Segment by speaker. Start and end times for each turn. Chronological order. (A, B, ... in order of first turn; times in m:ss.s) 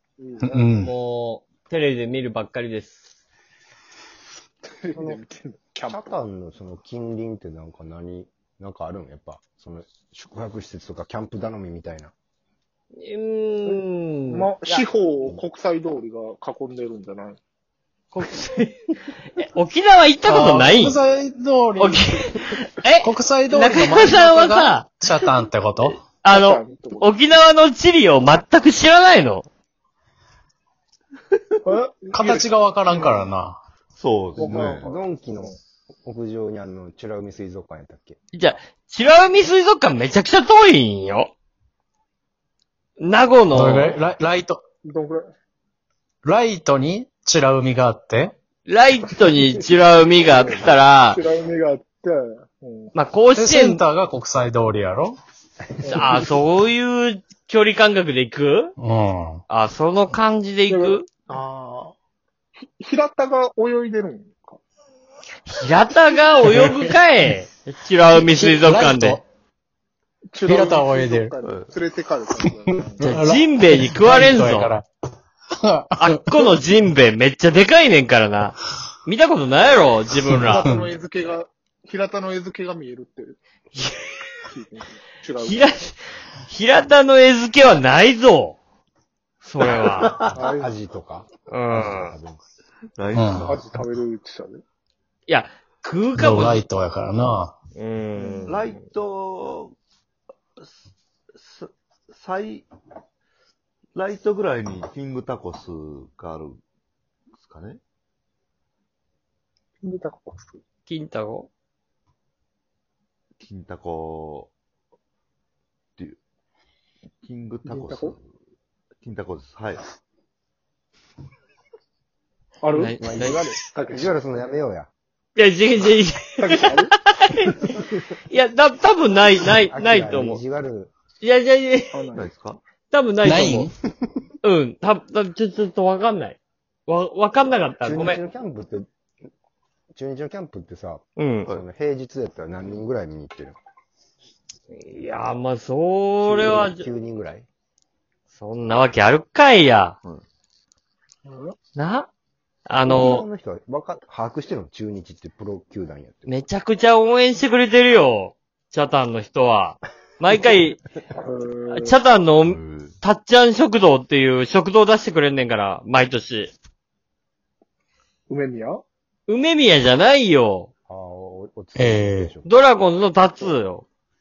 0:00.2-0:00.6 A
0:00.4-0:00.9 B
0:00.8-0:03.1 C
0:04.6-0:06.2 A
0:05.9-0:12.1 D
0:13.0-0:14.8 C
0:13.7-0:17.4 A
0:18.1-0:18.8 C
0:19.4-0:21.0 C
0:20.3-0:22.3 B
0:21.8-0:24.9 C
0:23.0-0:26.0 B
0:26.2-0:29.5 C
0:26.3-0:27.1 A
0:31.6-0:33.2 A
0:32.1-0:33.6 B
0:34.0-0:35.0 E
0:34.4-0:34.9 A
0:34.4-0:38.2 D
0:38.3-0:41.3 C
0:43.0-0:44.0 C
0:43.5-0:44.6 B
0:44.8-0:45.3 A
0:46.2-0:48.3 B
0:48.7-0:51.2 C
0:50.3-0:52.9 A
0:52.9-0:53.8 C
0:53.3-0:55.2 B
0:55.8-0:56.2 A
0:55.8-0:58.8 C
0:58.8-0:59.4 B
0:59.5-1:01.1 C
1:00.7-1:01.9 A
1:02.6-1:04.6 A
1:05.5-1:09.2 C
1:06.4-1:06.9 B
1:08.2-1:09.2 B
1:10.3-1:13.0 A
1:10.4-1:11.4 B
1:11.4-1:11.8 E
1:12.8-1:14.9 B
1:13.0-1:14.7 C
1:15.6-1:16.5 B
1:16.0-1:20.7 C
1:20.3-1:20.9 B
1:20.4-1:23.4 A
1:23.8-1:24.4 C
1:24.5-1:25.7 A
1:25.4-1:28.6 C
1:29.4-1:30.1 C
1:29.6-1:30.3 E
1:30.3-1:32.4 D
1:30.4-1:30.8 A
1:31.5-1:32.1 C
1:33.0-1:33.7 E
1:33.1-1:33.6 B
1:33.4-1:34.6 A
1:35.3-1:36.6 C
1:36.1-1:37.5 B
1:37.8-1:38.6 C
1:38.2-1:38.6 A
1:38.4-1:39.8 E
1:41.4-1:42.7 E
1:43.9-1:46.6 E
1:47.4-1:47.8 E
1:49.8-1:50.6 A
1:50.9-1:51.5 C
1:53.4-1:54.5 E
1:57.2-1:58.3 E
1:57.6-1:58.1 A
1:59.0-1:59.8 E
2:02.6-2:04.1 A
2:02.7-2:03.4 C
2:03.0-2:04.9 D
2:05.4-2:10.4 C
2:06.4-2:06.9 A
2:09.7-2:10.9 D
2:11.2-2:12.0 C
2:11.9-2:12.3 A
2:12.1-2:12.6 E
2:12.9-2:13.7 C
2:13.2-2:13.7 B
2:13.8-2:14.2 D
2:14.4-2:18.2 C
2:17.8-2:18.9 D
2:19.9-2:23.6 D
2:21.2-2:21.5 C
2:24.7-2:26.9 C
2:26.2-2:27.5 D
2:28.3-2:30.0 C
2:31.2-2:31.6 A
2:31.8-2:32.1 C
2:32.7-2:33.2 C
2:32.8-2:36.4 D
2:36.2-2:40.8 C
2:41.2-2:41.9 A
2:41.7-2:46.5 C
2:42.4-2:43.0 E
2:48.3-2:48.8 A
2:49.3-2:50.7 C
2:50.9-2:52.5 D
2:51.8-2:52.3 B
2:52.4-2:53.8 C